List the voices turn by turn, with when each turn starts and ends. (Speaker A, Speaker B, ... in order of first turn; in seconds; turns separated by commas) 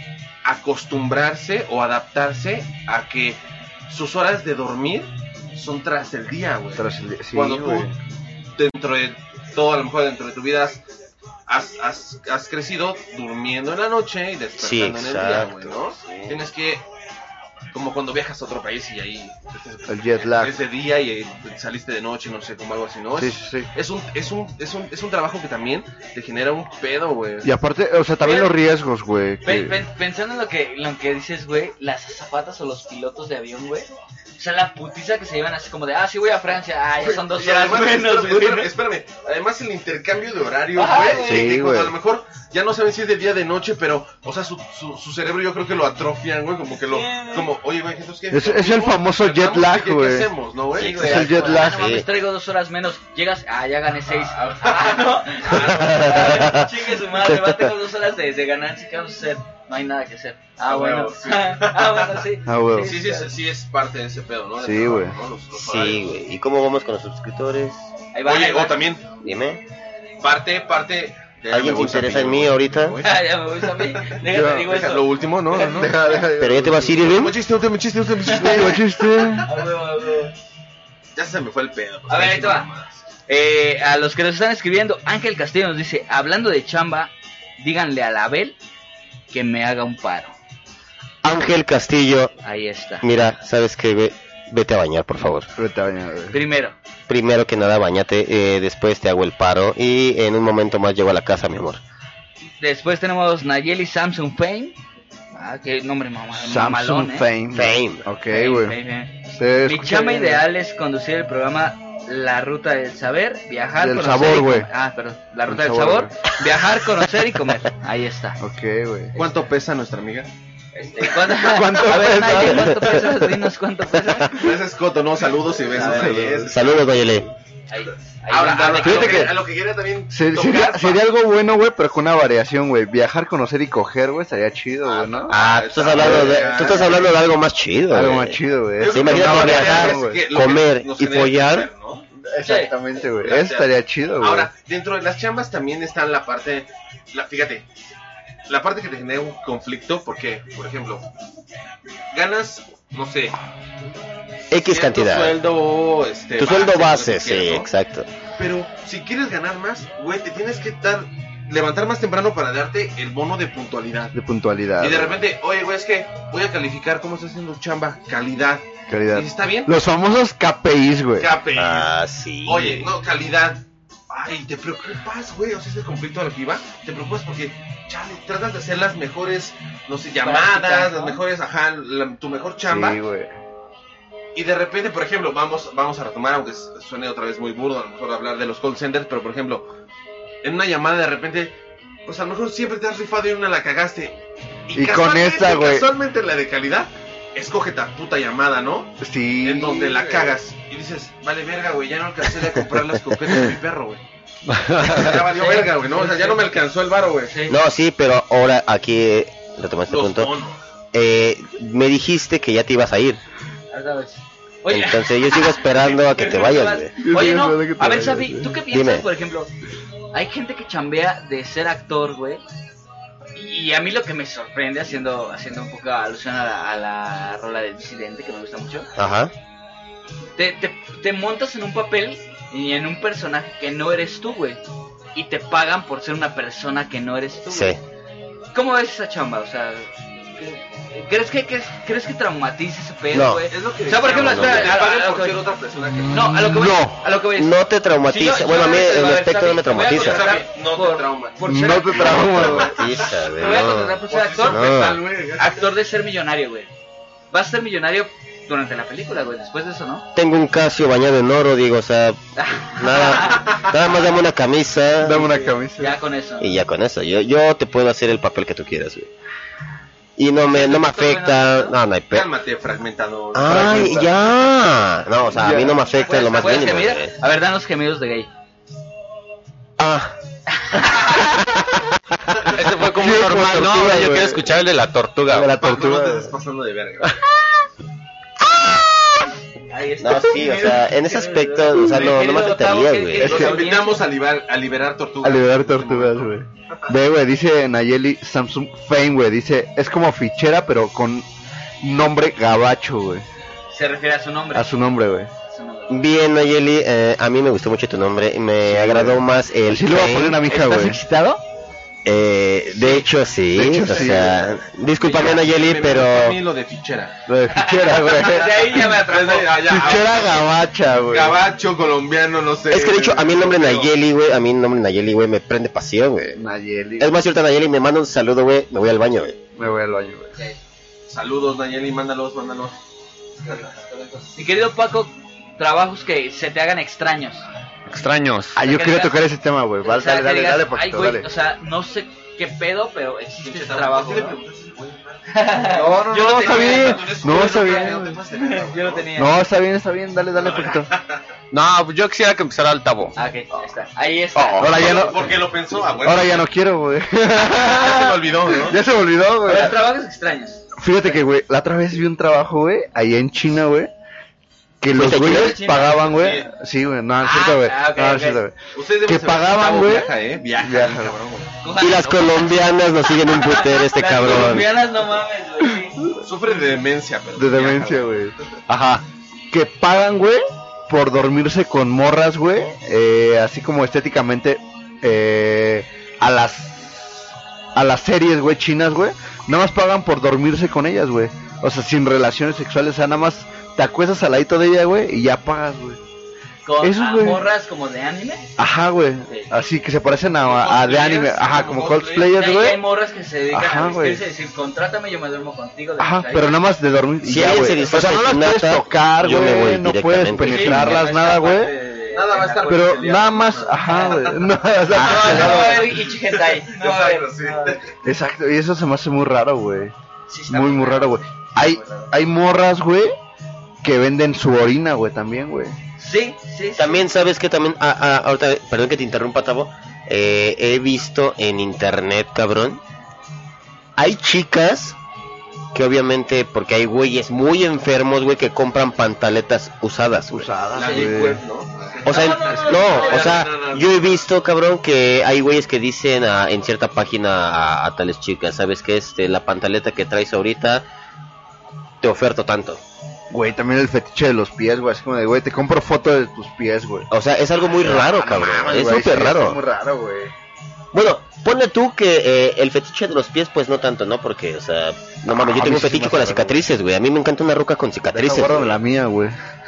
Speaker A: 0.4-7.9, Speaker B: 6.7-8.0, Speaker A: 8.6-10.8, Speaker A: 11.5-16.9, Speaker C: 14.6-16.4, Speaker A: 17.7-27.5, Speaker B: 19.9-20.6, Speaker B: 23.2-23.7, Speaker B: 27.4-29.8, Speaker D: 28.2-28.5, Speaker D: 29.4-38.7, Speaker A: 37.0-51.5, Speaker D: 40.7-41.5, Speaker B: 41.2-41.9, Speaker D: 46.9-47.5, Speaker B: 48.3-50.3, Speaker D: 50.7-63.3, Speaker C: 50.8-52.0, Speaker B: 50.9-51.9, Speaker A: 54.2-56.6, Speaker B: 57.1-57.7, Speaker A: 60.6-62.2, Speaker B: 62.4-63.0, Speaker A: 62.8-66.0, Speaker B: 64.6-65.2, Speaker C: 65.5-67.8, Speaker D: 68.1-68.8, Speaker A: 68.2-69.1, Speaker C: 69.2-69.6, Speaker A: 70.2-76.0, Speaker C: 71.5-73.0, Speaker D: 73.0-76.1, Speaker B: 74.3-74.7, Speaker B: 75.7-77.2, Speaker C: 76.4-77.4, Speaker A: 77.0-79.5, Speaker D: 78.2-78.8, Speaker B: 78.3-79.5, Speaker D: 79.4-80.3, Speaker A: 81.1-83.0, Speaker D: 82.1-82.7, Speaker D: 83.3-88.5, Speaker D: 89.3-90.3, Speaker C: 91.2-92.3, Speaker D: 92.4-93.1, Speaker C: 93.0-95.5, Speaker B: 95.5-96.4, Speaker D: 96.3-96.8, Speaker C: 97.1-101.8, Speaker D: 102.6-104.8, Speaker D: 105.3-107.3, Speaker B: 106.3-108.8, Speaker C: 107.5-108.0, Speaker D: 108.3-118.4, Speaker B: 109.4-110.4, Speaker B: 113.8-114.7, Speaker B: 115.5-116.2, Speaker B: 118.4-119.2, Speaker A: 119.1-120.3, Speaker D: 120.7-124.4, Speaker B: 121.2-123.0, Speaker C: 122.1-122.8, Speaker A: 124.3-127.0, Speaker D: 125.7-126.0, Speaker B: 125.7-126.6, Speaker C: 126.4-127.3, Speaker D: 127.7-129.3, Speaker A: 128.3-131.0, Speaker B: 128.8-129.3, Speaker B: 130.1-135.4, Speaker A: 134.8-137.2, Speaker C: 135.3-141.7, Speaker B: 135.9-136.6, Speaker B: 137.9-140.2, Speaker A: 138.8-142.1, Speaker B: 142.2-144.5, Speaker D: 142.4-142.7, Speaker A: 143.2-143.7, Speaker A: 144.2-147.7, Speaker A: 148.5-151.1, Speaker A: 152.1-153.4, Speaker C: 154.5-155.3, Speaker A: 154.5-157.7, Speaker C: 156.4-158.1, Speaker A: 158.3-164.1, Speaker B: 164.1-165.2, Speaker A: 164.8-169.7, Speaker B: 168.9-171.3, Speaker A: 171.2-171.9, Speaker C: 171.5-172.9, Speaker A: 172.4-183.0, Speaker D: 180.2-181.2, Speaker B: 182.7-183.4, Speaker A: 184.3-189.7, Speaker A: 190.4-191.5, Speaker A: 192.1-204.0, Speaker B: 194.7-195.9, Speaker B: 199.0-200.3, Speaker E: 204.6-205.0, Speaker A: 204.8-207.3, Speaker D: 205.3-206.5, Speaker D: 207.2-207.6, Speaker C: 207.5-210.3, Speaker A: 209.9-210.6, Speaker C: 210.9-213.2, Speaker D: 213.7-219.5, Speaker C: 214.7-216.9, Speaker A: 215.8-216.6, Speaker B: 217.0-218.6, Speaker C: 218.7-219.0, Speaker D: 220.1-222.4, Speaker D: 223.3-228.9, Speaker C: 229.0-229.3, Speaker D: 230.3-234.6, Speaker D: 235.1-237.8, Speaker C: 237.5-237.8, Speaker D: 238.5-245.4, Speaker C: 243.1-243.5, Speaker A: 243.5-246.3, Speaker C: 244.0-244.8, Speaker B: 246.0-247.0, Speaker D: 246.1-252.5, Speaker C: 247.3-250.3, Speaker A: 249.8-255.7, Speaker B: 251.4-252.8, Speaker C: 251.9-255.0, Speaker D: 253.2-254.7, Speaker D: 255.4-256.7, Speaker D: 257.3-260.1, Speaker C: 260.1-265.3, Speaker D: 262.4-264.1, Speaker B: 265.0-266.0, Speaker D: 265.1-266.6, Speaker C: 266.4-269.1, Speaker C: 270.2-272.3, Speaker D: 270.5-271.8, Speaker A: 272.1-274.3, Speaker C: 273.3-277.1, Speaker B: 273.6-274.0, Speaker B: 275.3-275.8, Speaker D: 275.8-278.3, Speaker C: 279.8-280.1, Speaker D: 280.5-281.3, Speaker E: 282.4-285.5, Speaker B: 282.6-284.6, Speaker B: 285.3-286.4, Speaker A: 285.5-287.2, Speaker D: 289.7-294.0, Speaker C: 290.0-293.4, Speaker A: 291.9-292.2, Speaker B: 293.2-293.5, Speaker A: 293.2-296.3, Speaker B: 295.2-301.3, Speaker B: 301.8-303.2, Speaker D: 303.7-304.7, Speaker B: 304.5-305.3, Speaker D: 305.5-306.1, Speaker C: 305.9-310.4, Speaker B: 308.6-311.0, Speaker D: 310.5-311.4, Speaker C: 312.0-316.4, Speaker D: 312.8-313.1, Speaker B: 313.5-314.5, Speaker D: 313.9-314.2, Speaker D: 315.0-315.4, Speaker A: 315.1-317.2, Speaker B: 317.3-318.8, Speaker D: 317.5-319.6, Speaker A: 318.7-320.5, Speaker B: 319.7-321.4, Speaker A: 321.1-323.9, Speaker C: 322.7-326.4, Speaker B: 326.3-327.2, Speaker C: 327.0-329.4, Speaker B: 329.5-330.3, Speaker A: 331.1-332.8, Speaker D: 333.4-337.5, Speaker A: 333.5-334.3, Speaker E: 337.9-338.6, Speaker B: 338.5-341.3, Speaker D: 338.6-339.3, Speaker D: 339.8-344.4, Speaker A: 343.4-349.1, Speaker D: 345.3-349.4, Speaker B: 345.8-348.2, Speaker B: 349.1-350.9, Speaker A: 350.4-351.2, Speaker E: 351.5-353.1, Speaker D: 353.1-355.0, Speaker B: 354.5-355.4, Speaker A: 354.6-356.4, Speaker B: 356.0-359.8, Speaker A: 357.4-358.8, Speaker D: 359.4-360.7, Speaker B: 360.7-363.9, Speaker B: 364.8-371.1, Speaker C: 364.9-365.6, Speaker D: 365.0-366.4, Speaker A: 365.8-366.5, Speaker D: 367.2-368.4, Speaker A: 368.7-371.5, Speaker D: 371.6-376.0, Speaker C: 371.7-374.7, Speaker A: 376.2-378.1, Speaker B: 377.4-378.3, Speaker E: 378.7-379.0, Speaker B: 379.5-396.0, Speaker D: 396.6-398.5, Speaker B: 396.8-397.4, Speaker B: 398.6-402.8, Speaker D: 399.3-399.5, Speaker A: 400.4-402.3, Speaker D: 402.1-406.6, Speaker B: 403.5-404.2, Speaker B: 406.0-411.7, Speaker C: 407.2-411.0, Speaker D: 410.4-413.0, Speaker A: 412.0-417.9, Speaker B: 412.6-416.0, Speaker D: 413.8-417.8, Speaker B: 418.0-419.9, Speaker D: 420.3-422.1, Speaker B: 420.5-423.1, Speaker B: 423.8-425.8, Speaker D: 426.0-427.1, Speaker C: 426.8-432.8, Speaker C: 434.0-435.0, Speaker C: 435.7-440.5, Speaker B: 440.3-441.4, Speaker A: 440.7-444.1, Speaker D: 440.7-441.3, Speaker D: 441.9-443.5, Speaker C: 442.1-450.8, Speaker C: 452.0-452.8, Speaker B: 453.3-457.1, Speaker C: 457.1-459.6, Speaker B: 457.8-460.3, Speaker C: 460.9-468.8, Speaker B: 465.3-466.6, Speaker B: 468.1-469.4